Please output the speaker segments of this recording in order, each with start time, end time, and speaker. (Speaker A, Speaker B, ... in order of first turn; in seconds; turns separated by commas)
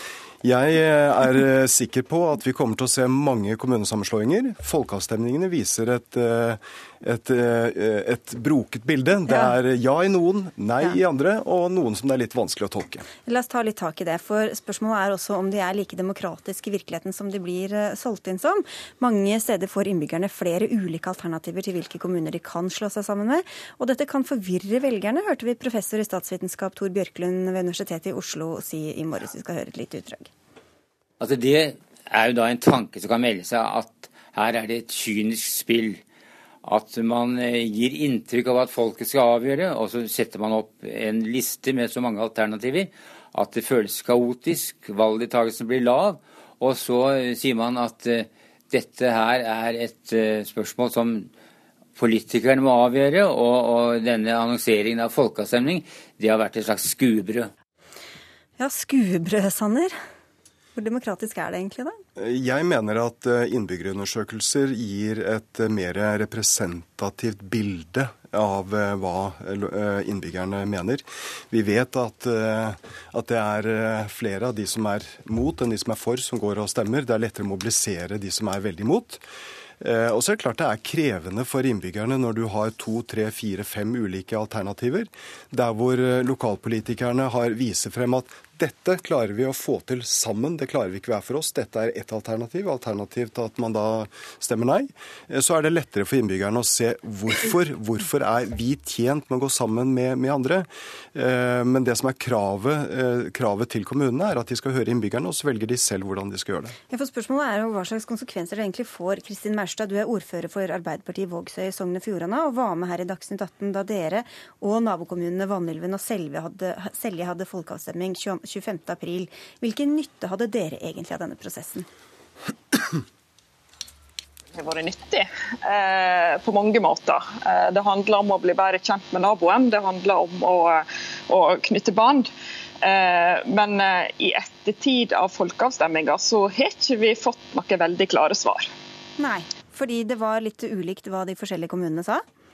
Speaker A: 0.4-13.1, Speaker B: 9.3-9.6, Speaker B: 13.2-30.3, Speaker C: 31.2-36.0, Speaker C: 36.6-51.3, Speaker C: 52.0-57.5, Speaker B: 58.6-60.0, Speaker B: 60.8-62.0, Speaker A: 62.2-79.2, Speaker A: 79.8-106.8, Speaker B: 106.9-121.9, Speaker D: 124.6-132.3, Speaker D: 132.8-138.7, Speaker B: 139.2-142.2